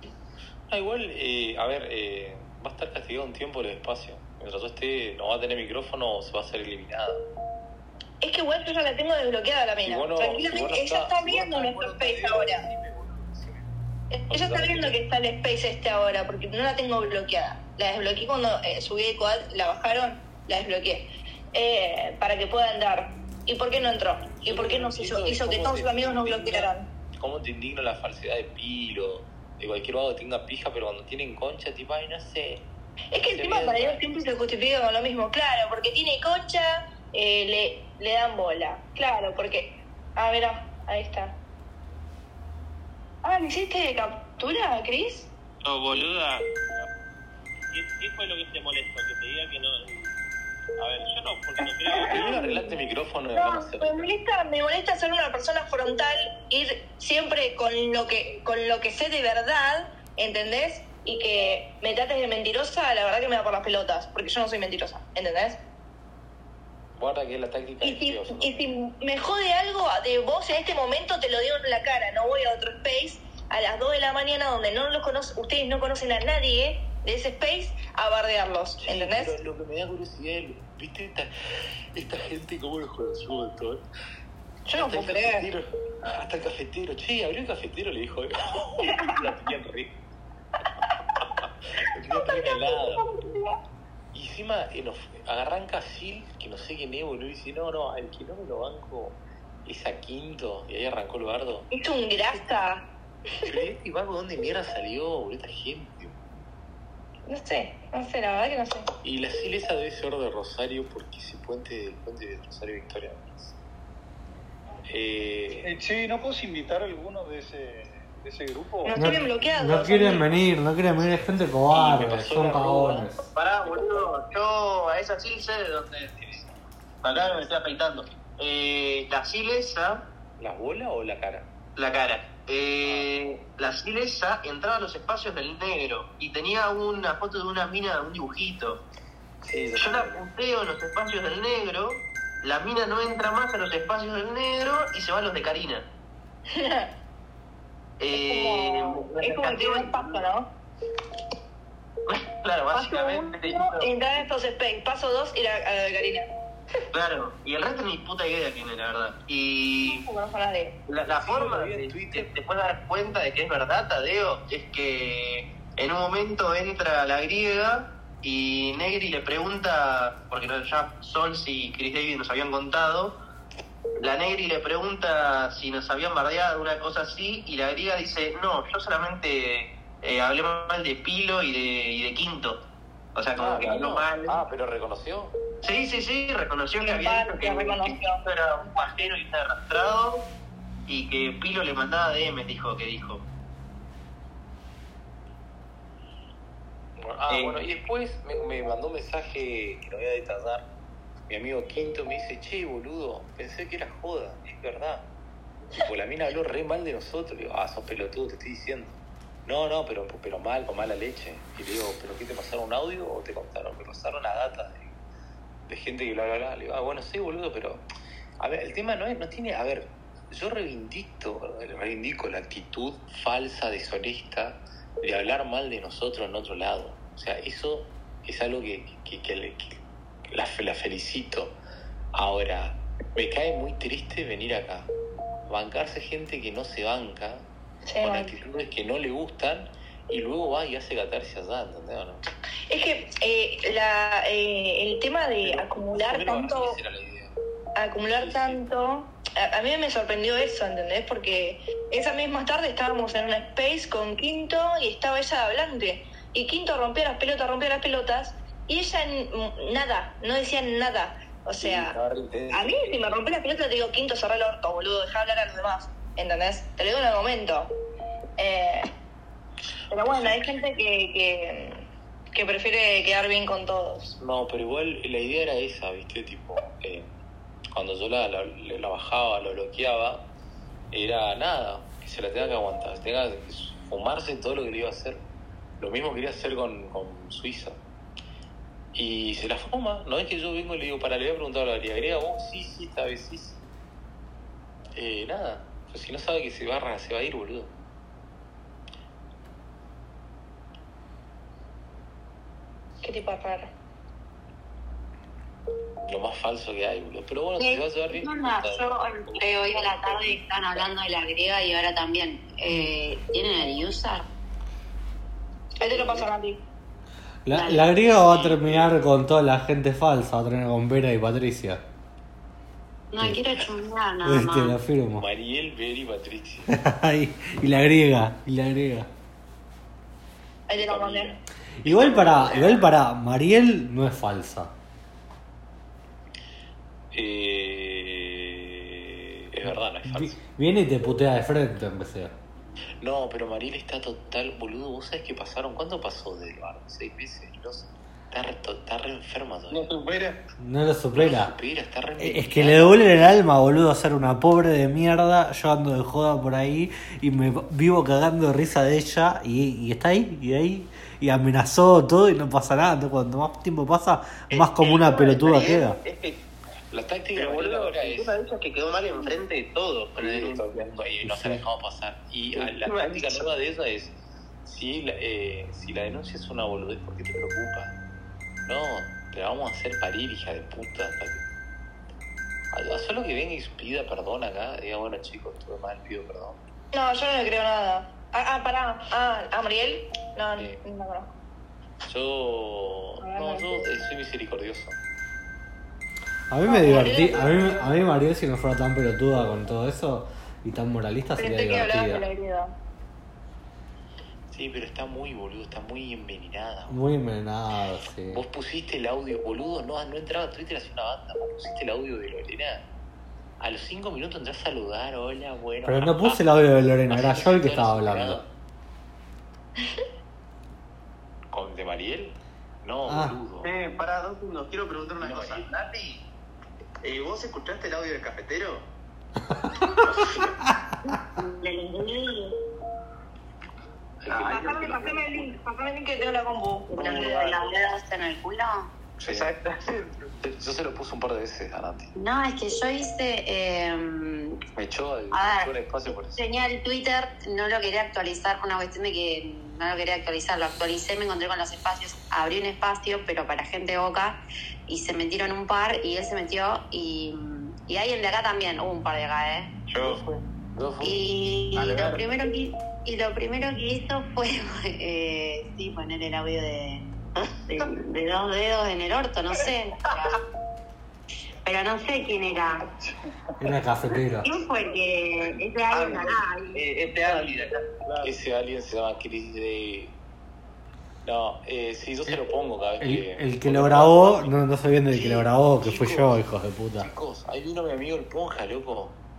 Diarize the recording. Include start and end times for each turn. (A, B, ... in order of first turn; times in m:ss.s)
0:00.7-0:07.2 A
0:08.2-0:12.6 B
0:09.8-0:13.6 A
0:14.1-0:26.9 B
0:14.3-0:15.0 A
0:24.4-0:32.6 A
0:33.1-0:41.4 B
0:33.3-0:34.0 A
0:43.2-0:45.3 B
0:45.6-0:46.9 C
0:47.7-0:50.1 C
0:50.8-0:52.4 C
0:52.0-0:52.6 B
0:52.0-0:54.1 A
0:53.3-1:05.6 B
1:07.0-1:08.7 A
1:07.8-1:19.3 B
1:18.8-1:21.3 A
1:21.9-1:23.8 A
1:24.6-1:25.5 B
1:24.7-1:29.9 A
1:28.8-1:29.2 B
1:31.4-1:33.0 A
1:32.1-1:33.6 B
1:34.1-1:41.7 A
1:41.7-1:42.8 B
1:43.4-1:46.2 A
1:47.3-1:48.8 B
1:49.0-1:53.6 A
1:54.9-1:55.7 A
1:55.6-1:59.1 D
1:58.8-2:00.3 B
1:59.0-2:03.2 E
2:01.7-2:03.1 A
2:03.3-2:06.3 F
2:03.7-2:04.1 A
2:07.0-2:10.0 F
2:10.4-2:11.5 A
2:11.8-2:18.8 F
2:12.8-2:13.1 A
2:19.4-2:20.2 A
2:19.7-2:25.8 F
2:26.5-2:26.9 B
2:28.0-2:30.3 F
2:28.1-2:30.5 B
2:32.1-2:33.9 F
2:32.7-2:36.2 B
2:36.9-2:40.0 F
2:39.8-2:40.8 B
2:40.9-2:53.2 F
2:41.1-2:42.3 A
2:54.0-3:02.6 F
3:03.1-3:04.4 F
3:03.4-3:05.3 A
3:05.6-3:10.3 F
3:06.8-3:08.8 B
3:10.9-3:13.2 F
3:17.0-3:20.7 A
3:17.3-3:17.6 F
3:21.3-3:25.0 A
3:25.7-3:34.9 A
3:35.7-3:37.8 A
3:38.4-3:51.6 A
3:52.1-3:54.9 A
3:55.5-3:57.5 A
3:57.8-3:58.3 B
3:58.0-4:02.2 A
4:02.7-4:06.8 B
4:05.4-4:07.4 A
4:07.8-4:22.0 B
4:08.1-4:08.6 A
4:21.6-4:22.8 A
4:22.5-4:27.7 B
4:28.4-4:28.9 B
4:29.9-4:34.2 B
4:34.2-4:37.1 A
4:37.7-4:40.3 A
4:40.9-4:45.2 A
4:45.8-4:47.8 A
4:48.9-4:53.6 A
4:54.9-4:57.7 A
5:03.0-5:03.7 B
5:06.0-5:10.8 A
5:07.6-5:14.3 G
5:15.8-5:16.6 B
5:15.8-5:16.3 A
5:17.4-5:21.8 E
5:17.5-5:18.0 G
5:18.3-5:18.9 A
5:23.1-5:24.8 G
5:24.2-5:25.2 E
5:25.2-5:26.7 A
5:26.7-5:29.1 E
5:30.7-5:31.4 B
5:30.7-5:32.8 A
5:31.8-5:34.7 E
5:32.2-5:32.6 F
5:37.1-5:40.4 A
5:39.6-5:42.3 E
5:43.0-5:49.9 A
5:49.7-5:50.4 F
5:50.6-5:51.5 E
5:51.2-5:53.2 A
5:52.2-6:06.0 E
6:04.5-6:06.4 F
6:06.9-6:08.4 A
6:07.3-6:11.0 F
6:10.2-6:17.9 A
6:11.2-6:11.6 E
6:12.6-6:13.5 F
6:18.6-6:21.4 A
6:22.7-6:26.6 A
6:26.9-6:31.3 B
6:32.0-6:35.0 A
6:33.2-6:33.8 B
6:36.5-6:42.2 E
6:36.6-6:38.0 B
6:41.4-6:42.7 B
6:44.5-6:47.0 A
6:46.9-6:48.4 E
6:48.3-6:52.8 A
6:53.6-6:58.5 A
6:55.8-6:58.4 E
7:01.5-7:03.7 A
7:03.0-7:03.4 E
7:03.6-7:06.2 F
7:05.2-7:05.6 A
7:07.0-7:08.9 F
7:10.1-7:10.5 A
7:11.1-7:12.5 G
7:14.2-7:15.5 A
7:14.3-7:14.9 F
7:14.4-7:17.3 B
7:16.9-7:18.9 G
7:17.0-7:17.5 F
7:19.2-7:20.3 F
7:19.2-7:19.5 A
7:20.4-7:22.1 A
7:22.1-7:24.6 G
7:24.8-7:26.4 A
7:25.3-7:25.7 G
7:26.3-7:39.7 G
7:39.9-7:40.2 F
7:40.0-7:41.3 A
7:41.0-7:47.1 G
7:41.7-7:42.3 F
7:47.7-7:50.3 G
7:51.6-7:52.8 G
7:53.0-7:53.3 D
7:53.6-7:54.5 E
7:54.4-7:56.8 G
7:55.9-7:57.9 F
7:58.0-7:58.3 D
7:58.2-8:00.1 A
8:01.2-8:04.5 A
8:03.0-8:07.1 E
8:05.1-8:06.4 A
8:07.0-8:09.2 A